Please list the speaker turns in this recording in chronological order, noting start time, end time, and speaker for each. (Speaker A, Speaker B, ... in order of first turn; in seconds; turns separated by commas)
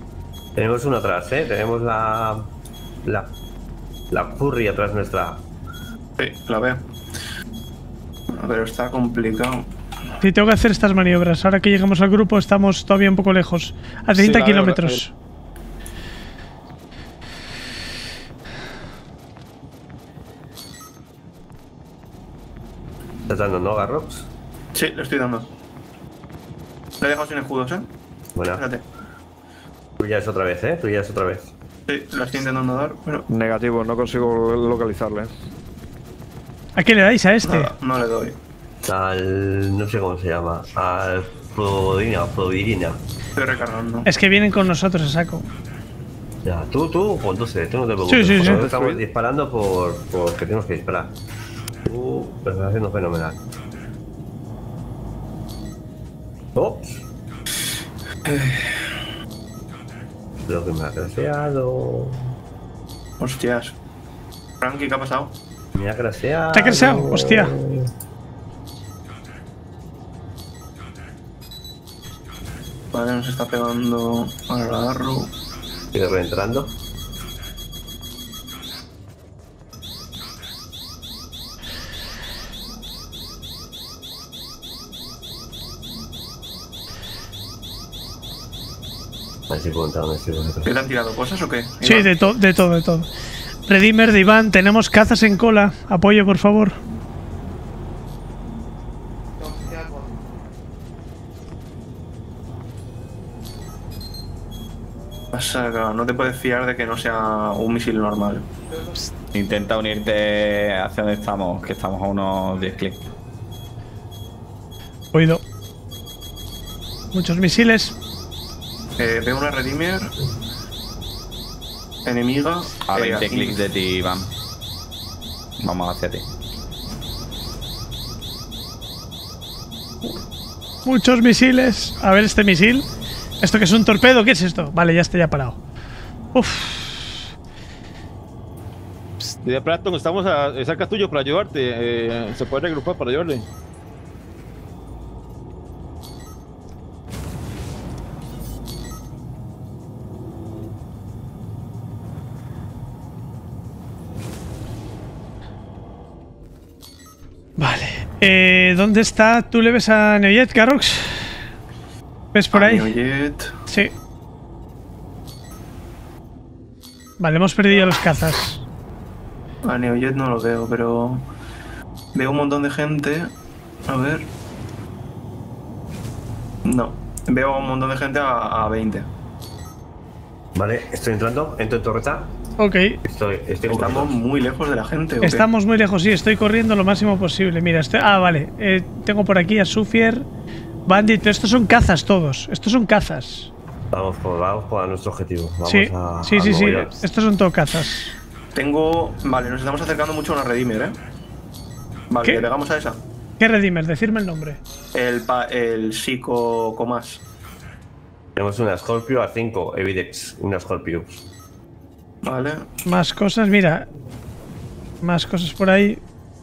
Speaker A: 0.6-2.5, Speaker A: 3.0-3.3, Speaker A: 4.1-5.4, Speaker B: 6.2-6.8, Speaker B: 8.3-9.7, Speaker C: 10.2-15.1, Speaker D: 14.1-15.0, Speaker A: 23.3-24.3, Speaker B: 24.7-25.5, Speaker B: 27.0-27.9, Speaker A: 28.4-28.6, Speaker B: 28.5-28.8, Speaker A: 30.0-31.5, Speaker B: 31.9-33.2, Speaker E: 33.3-35.3, Speaker C: 36.8-37.7, Speaker B: 37.4-38.4, Speaker A: 38.8-43.0, Speaker B: 43.4-44.1, Speaker C: 44.0-45.5, Speaker A: 46.4-51.1, Speaker C: 48.1-48.7, Speaker E: 48.4-49.0, Speaker A: 51.8-53.4, Speaker A: 56.5-57.0, Speaker B: 58.2-58.8, Speaker A: 60.5-62.3, Speaker B: 63.2-63.7, Speaker B: 64.6-65.3, Speaker A: 65.7-67.9, Speaker C: 66.5-67.5, Speaker B: 72.9-75.3, Speaker A: 75.9-76.7, Speaker A: 89.5-90.7, Speaker B: 90.7-92.1, Speaker C: 91.8-93.1, Speaker C: 93.7-96.7, Speaker B: 105.3-108.5, Speaker F: 109.3-113.0, Speaker C: 115.1-115.4, Speaker C: 117.1-118.0, Speaker B: 119.0-120.1, Speaker B: 122.0-123.6, Speaker F: 122.9-124.3, Speaker F: 125.6-126.2, Speaker C: 130.8-132.8, Speaker C: 133.4-135.6, Speaker C: 136.3-137.1, Speaker D: 139.4-143.4, Speaker C: 157.6-161.3, Speaker C: 162.3-162.9, Speaker B: 162.5-163.5, Speaker C: 167.2-168.6, Speaker B: 169.6-171.3, Speaker B: 172.1-173.3, Speaker B: 173.9-174.2, Speaker B: 176.6-179.1, Speaker A: 180.5-182.3, Speaker C: 182.6-183.0, Speaker A: 183.0-184.2, Speaker B: 183.7-185.5, Speaker C: 185.2-190.2, Speaker C: 190.9-193.5, Speaker A: 193.9-196.9, Speaker C: 195.7-198.1, Speaker B: 198.5-200.9, Speaker B: 202.1-203.0, Speaker C: 203.4-204.6, Speaker B: 204.9-207.2, Speaker A: 208.3-211.2, Speaker B: 212.2-212.7, Speaker C: 212.8-213.9, Speaker C: 215.0-216.0